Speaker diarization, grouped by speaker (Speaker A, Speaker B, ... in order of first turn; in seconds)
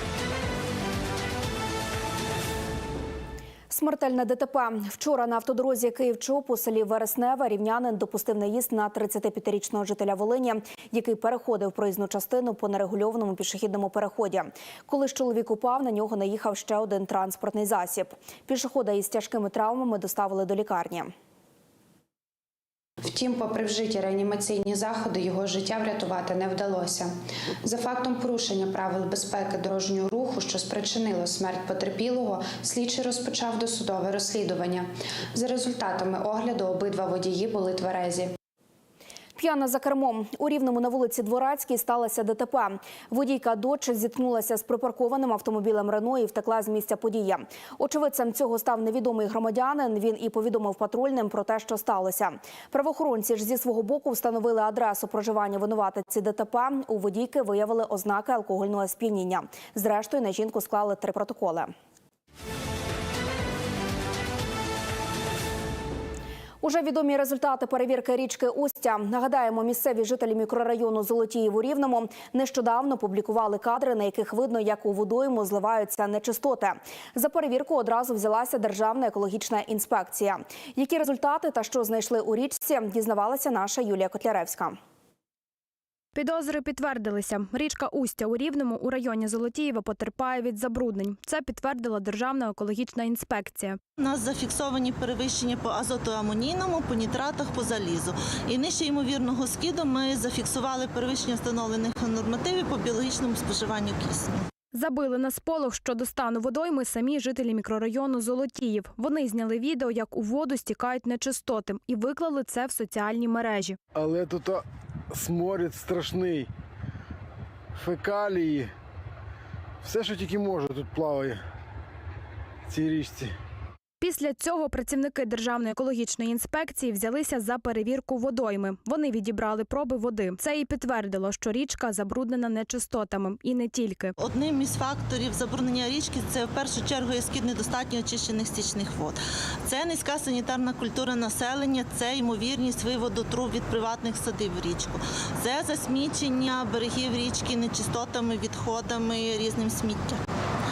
Speaker A: 3.7-21.1, 39.4-61.7, 66.6-84.8
Speaker B: 23.2-27.1, 27.7-34.8, 35.4-38.3
Speaker C: 86.1-93.8, 104.7-113.8, 124.0-134.1
Speaker D: 94.0-104.4, 134.2-150.2
Speaker E: 114.0-116.5, 117.8-118.7, 119.8-121.4, 122.7-123.3